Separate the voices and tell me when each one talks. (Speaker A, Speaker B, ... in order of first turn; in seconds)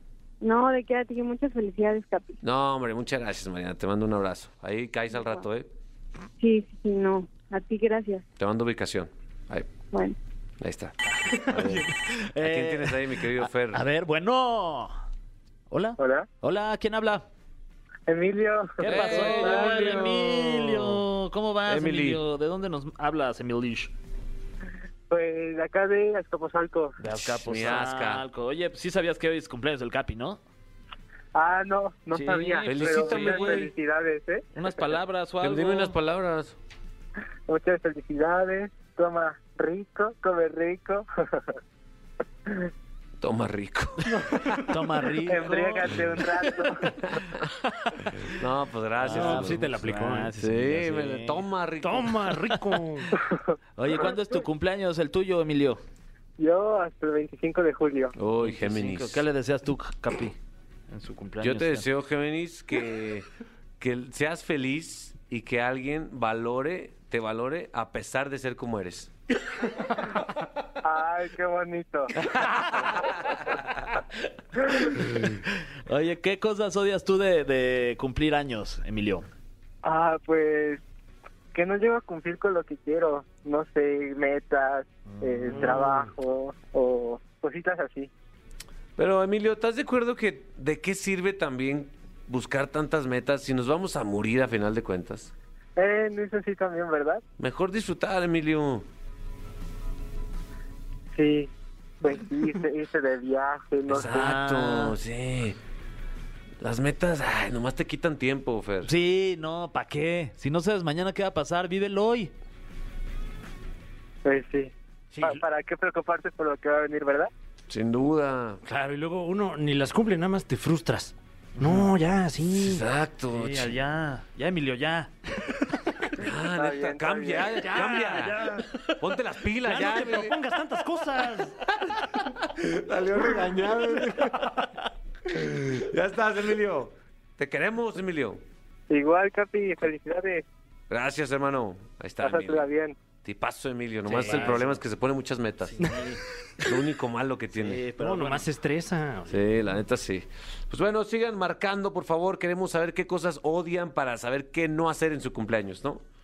Speaker A: 0.4-2.4, 5.2-5.4, 6.4-8.2
Speaker B: 2.4-5.7, 8.4-9.7, 10.6-13.8, 18.8-21.0, 21.7-22.2, 27.1-28.2, 32.6-33.7, 35.4-36.5, 43.2-44.6, 48.3-49.7, 50.4-52.3, 58.1-59.2, 61.4-63.2, 63.8-69.1, 89.0-95.3, 97.4-98.8, 103.9-105.6, 106.6-108.9, 117.7-118.6, 122.5-123.7, 126.2-130.4, 132.5-134.5, 135.2-138.4, 140.9-142.7, 143.2-145.9, 146.6-147.8, 149.3-156.0
Speaker C: 11.2-14.9, 15.7-17.2, 18.8-23.9, 27.0-30.4, 32.1-33.7, 34.5-36.0, 44.7-46.0, 49.0-51.4, 52.5-52.8, 53.8-55.8, 58.4-60.4, 60.9-61.9, 74.8-79.3, 85.2-86.0, 104.1-105.0, 108.8-112.3, 121.6-121.9, 123.3-125.1, 144.1-144.8, 145.8-146.2, 147.6-148.5
Speaker D: 16.0-16.2, 18.1-20.1, 25.1-27.0, 31.3-34.4, 37.5-41.0, 45.2-47.0, 53.3-54.1, 56.4-58.1, 70.8-72.1, 79.8-80.8, 81.5-88.1, 95.8-97.2, 101.1-101.5, 102.0-104.2, 114.2-117.3, 126.5-127.6, 138.9-140.4, 142.2-142.9
Speaker E: 49.1-50.3, 51.8-53.1, 118.7-122.8, 127.5-128.7, 129.6-131.7, 148.0-149.4